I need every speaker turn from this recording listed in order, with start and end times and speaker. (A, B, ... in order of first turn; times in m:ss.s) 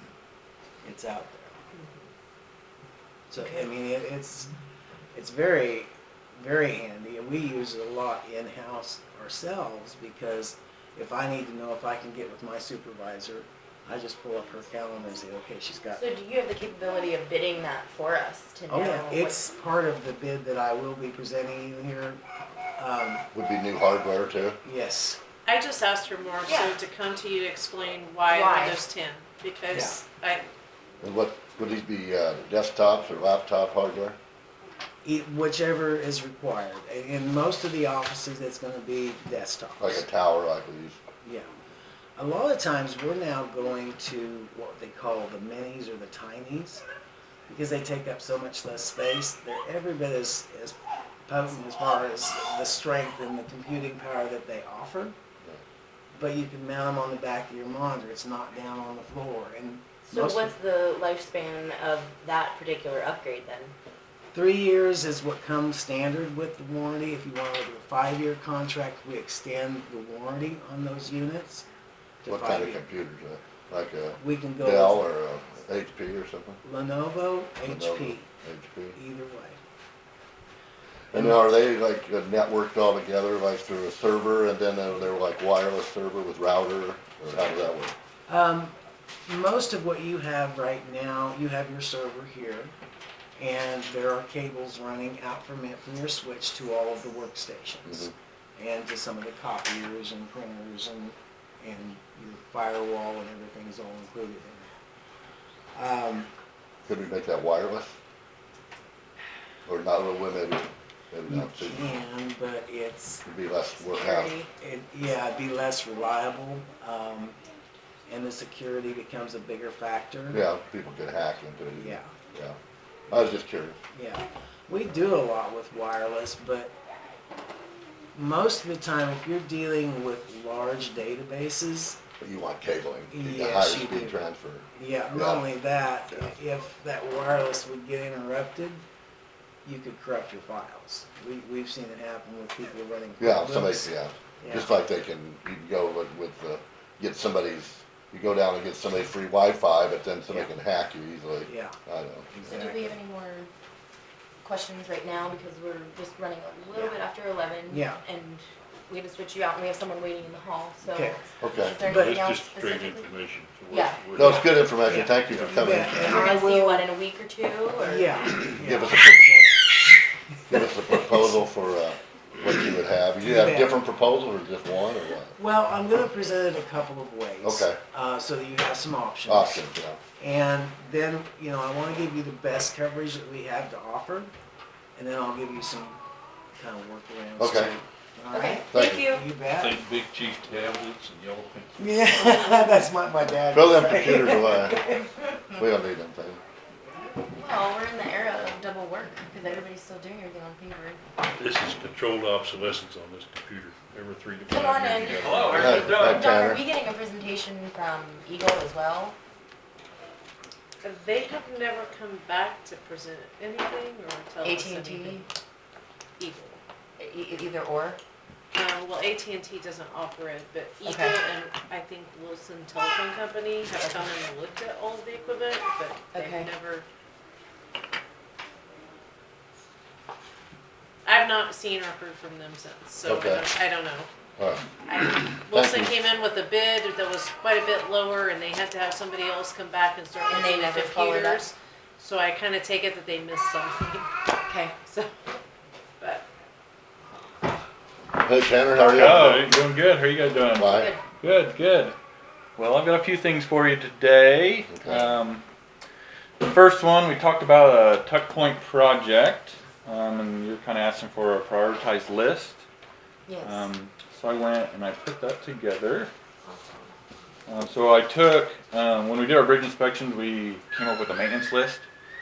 0:00.8-0:01.6 A
0:01.7-0:02.0 B
0:03.3-0:04.5 A
0:03.4-0:03.6 C
0:05.1-0:16.0 A
0:16.0-0:19.5 C
0:18.7-0:22.2 A
0:22.8-0:23.3 A
0:23.3-0:24.6 D
0:24.6-0:25.2 A
0:25.4-0:30.5 B
0:26.4-0:26.8 C
0:28.3-0:28.8 C
0:29.7-0:30.0 A
0:31.0-0:34.2 D
0:35.0-0:40.0 A
0:39.8-0:41.0 D
0:41.2-0:41.5 A
0:42.2-0:46.8 A
0:47.5-0:55.1 A
0:56.2-1:00.6 A
1:00.1-1:03.7 C
1:04.3-1:11.7 A
1:12.2-1:12.8 A
1:12.3-1:16.6 D
1:14.2-1:15.1 A
1:16.6-1:18.3 A
1:17.6-1:19.0 D
1:19.0-1:19.6 A
1:21.1-1:21.4 A
1:21.1-1:27.9 D
1:28.3-1:28.7 A
1:29.3-1:32.7 A
1:33.4-1:44.7 A
1:45.7-1:46.3 A
1:46.9-1:48.0 D
1:49.7-1:51.9 D
1:51.3-1:53.2 A
1:53.3-1:54.4 D
1:53.9-1:57.4 A
1:58.1-2:00.4 A
2:00.3-2:02.6 D
2:01.8-2:02.2 A
2:03.1-2:03.8 D
2:03.9-2:06.7 A
2:08.1-2:12.0 A
2:12.2-2:15.6 D
2:13.1-2:14.2 A
2:14.8-2:18.8 A
2:19.6-2:24.8 A
2:23.2-2:32.4 D
2:31.5-2:31.8 A
2:32.3-2:33.0 A
2:32.4-2:33.5 C
2:34.4-2:43.1 C
2:37.7-2:38.0 A
2:40.8-2:41.2 A
2:41.4-2:41.8 D
2:41.8-2:46.0 E
2:41.8-2:42.2 A
2:43.7-2:44.0 C
2:44.2-2:46.3 D
2:44.9-2:46.9 A
2:46.0-2:48.5 C
2:47.8-2:49.6 A
2:48.6-2:49.3 D
2:50.5-2:55.4 D
2:53.2-2:53.8 A
2:55.4-2:59.6 A
2:57.4-2:57.8 D
2:59.3-3:00.0 D
3:00.2-3:04.3 A
3:05.0-3:06.0 A
3:06.6-3:09.8 A
3:07.4-3:07.8 D
3:08.3-3:09.3 C
3:08.7-3:09.1 D
3:09.5-3:12.0 E
3:11.8-3:15.1 A
3:13.5-3:14.9 D
3:15.5-3:16.4 D
3:17.3-3:21.0 C
3:21.4-3:26.0 E
3:24.5-3:29.2 C
3:25.2-3:26.3 F
3:25.5-3:26.6 D
3:30.8-3:35.3 B
3:34.4-3:35.3 C
3:36.2-3:36.6 B
3:37.0-3:38.0 C
3:38.5-3:46.8 B
3:40.8-3:41.2 C
3:43.8-3:44.1 C
3:46.1-3:46.5 C
3:51.0-3:54.1 B
3:53.0-3:53.5 D
3:54.4-3:54.6 D
3:54.9-4:04.1 B
3:55.5-3:56.0 D
4:00.3-4:01.4 C
4:04.5-4:04.8 C
4:06.0-4:06.3 B
4:08.2-4:09.4 D
4:08.8-4:12.0 F
4:10.6-4:10.9 D
4:10.6-4:11.0 C
4:12.6-4:15.4 F
4:14.7-4:15.2 D
4:16.4-4:22.6 F
4:23.3-4:23.7 C
4:23.4-4:26.1 F
4:26.4-4:26.9 C
4:27.5-4:31.8 F